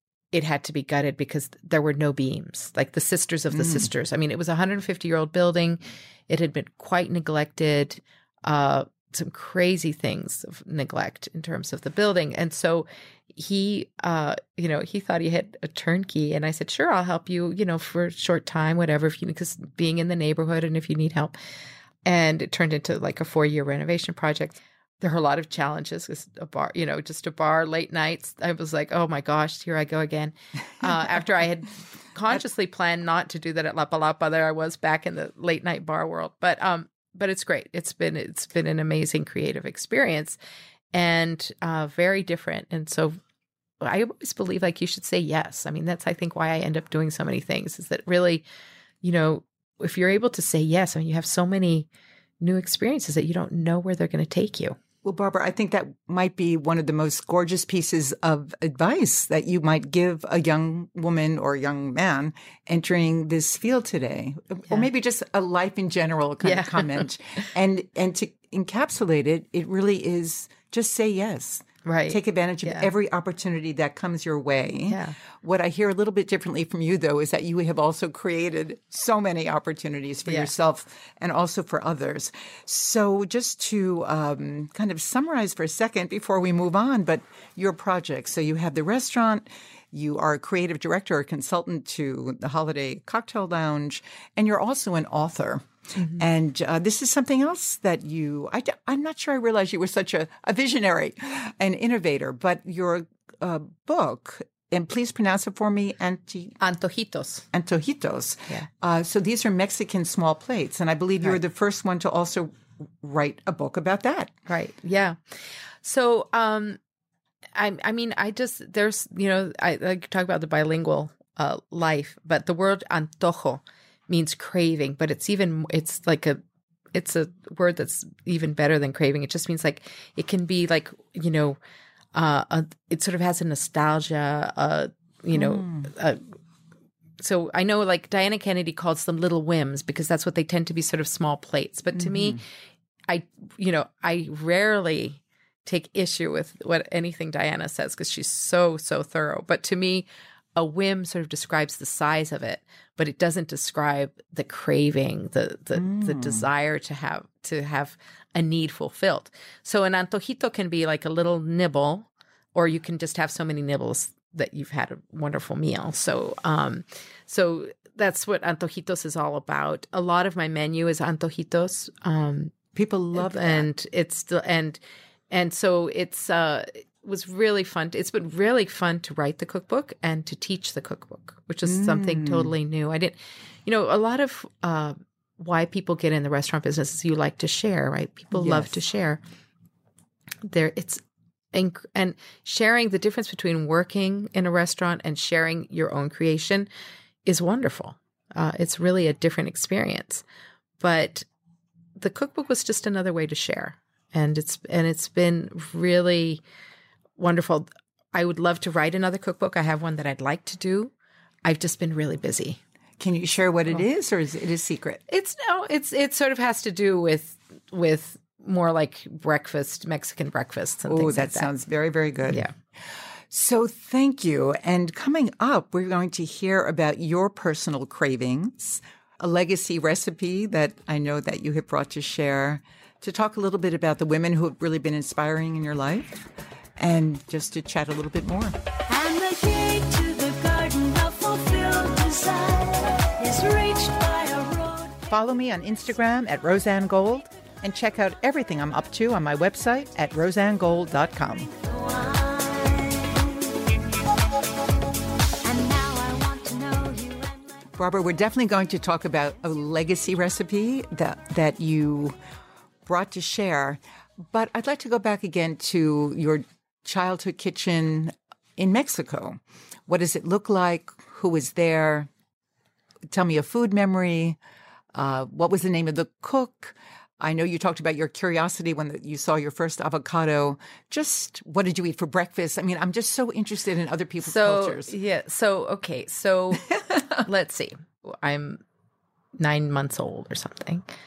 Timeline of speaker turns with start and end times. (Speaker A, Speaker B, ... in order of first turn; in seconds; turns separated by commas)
Speaker A: 0.3-21.4, Speaker B: 3.5-3.9, Speaker A: 22.1-40.4, Speaker A: 40.9-43.2, Speaker A: 43.8-48.5, Speaker A: 49.0-51.9, Speaker A: 52.4-54.8, Speaker B: 55.0-106.6, Speaker A: 66.4-67.5, Speaker A: 71.8-72.9, Speaker A: 74.9-75.2, Speaker A: 106.6-107.5, Speaker B: 107.5-114.3, Speaker A: 114.5-116.8, Speaker A: 117.5-126.4, Speaker A: 126.9-131.6, Speaker A: 132.2-136.2, Speaker B: 135.3-135.9, Speaker A: 137.2-142.4, Speaker B: 141.9-142.4, Speaker A: 143.1-172.6, Speaker B: 155.8-156.4, Speaker B: 172.8-173.7, Speaker A: 173.2-174.8, Speaker A: 175.3-189.2, Speaker B: 181.7-182.5, Speaker B: 188.3-188.8, Speaker A: 190.4-196.7, Speaker A: 197.2-200.2, Speaker A: 200.8-201.3, Speaker A: 202.0-206.4, Speaker A: 207.2-210.9, Speaker A: 211.4-212.6, Speaker B: 213.0-215.0, Speaker A: 215.1-221.5, Speaker B: 220.9-236.2, Speaker A: 222.3-222.5, Speaker B: 236.8-238.6, Speaker C: 238.9-245.0, Speaker B: 245.1-251.5, Speaker C: 251.6-253.6, Speaker C: 255.4-257.7, Speaker B: 257.8-262.2, Speaker B: 262.9-272.1, Speaker B: 273.1-274.4, Speaker B: 274.9-284.9, Speaker A: 284.2-288.6, Speaker A: 289.4-290.9